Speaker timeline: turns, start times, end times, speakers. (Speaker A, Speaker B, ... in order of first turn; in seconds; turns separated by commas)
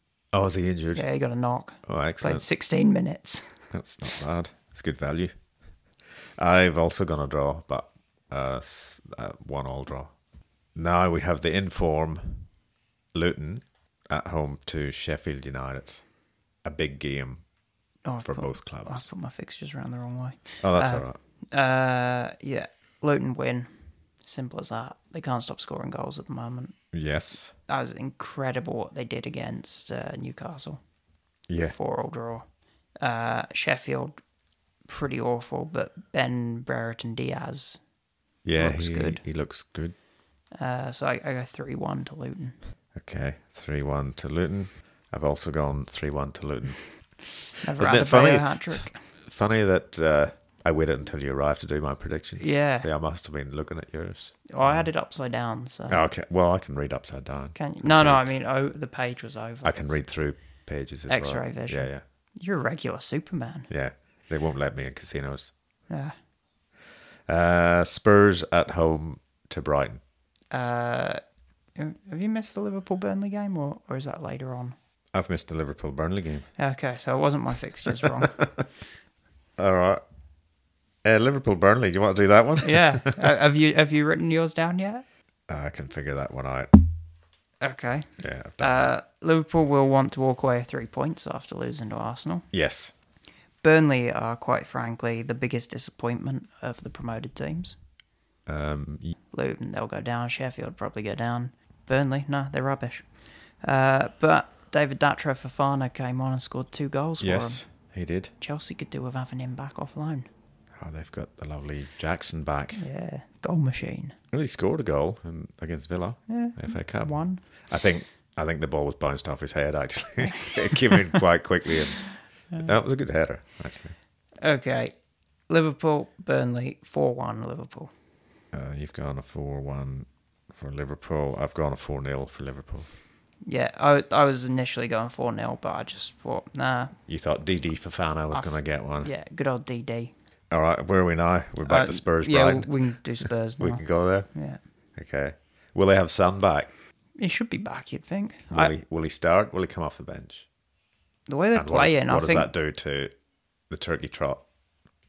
Speaker A: 0.3-1.0, Speaker B: 0.9-3.6, Speaker A: 1.9-2.4, Speaker A: 3.7-5.3, Speaker A: 6.2-10.1, Speaker A: 10.7-12.5, Speaker A: 13.1-16.0, Speaker A: 16.6-17.4, Speaker B: 18.0-23.7, Speaker A: 18.2-19.1, Speaker A: 20.6-21.2, Speaker B: 24.2-26.8, Speaker A: 26.9-27.5, Speaker B: 27.7-30.8, Speaker A: 31.5-31.8, Speaker B: 31.7-32.4, Speaker B: 33.0-34.1, Speaker B: 34.9-37.8, Speaker A: 38.4-39.9, Speaker B: 38.6-39.2, Speaker B: 40.5-42.5, Speaker A: 42.9-47.0, Speaker B: 47.6-49.0, Speaker A: 47.7-54.9, Speaker B: 52.4-52.9, Speaker B: 54.5-56.0, Speaker A: 55.9-58.3, Speaker B: 57.5-59.9, Speaker A: 59.6-62.0, Speaker B: 61.1-63.7, Speaker A: 63.7-65.5, Speaker B: 65.9-66.1, Speaker A: 67.3-70.0, Speaker B: 70.5-71.2, Speaker B: 71.8-74.8, Speaker A: 75.1-76.5, Speaker B: 76.6-78.4, Speaker A: 78.0-78.6, Speaker A: 79.6-80.0, Speaker A: 81.0-83.3, Speaker B: 82.6-85.0, Speaker A: 85.5-86.7, Speaker B: 87.6-92.5, Speaker A: 88.2-88.8, Speaker A: 92.5-92.9, Speaker B: 93.6-97.8, Speaker A: 98.5-99.1, Speaker B: 99.3-107.7, Speaker A: 107.2-108.3, Speaker B: 108.4-110.3, Speaker A: 110.8-112.8, Speaker B: 112.7-114.2, Speaker A: 114.3-123.9, Speaker B: 116.3-117.4, Speaker B: 120.2-121.2, Speaker B: 124.4-124.9, Speaker B: 125.5-127.9, Speaker A: 128.5-132.9, Speaker B: 133.4-136.9, Speaker A: 137.1-139.1, Speaker B: 138.3-140.1, Speaker A: 140.5-144.3, Speaker B: 141.6-144.6, Speaker A: 144.9-146.7, Speaker B: 147.2-148.7, Speaker A: 148.5-150.5, Speaker B: 151.3-152.5, Speaker A: 151.5-153.1, Speaker A: 153.7-154.4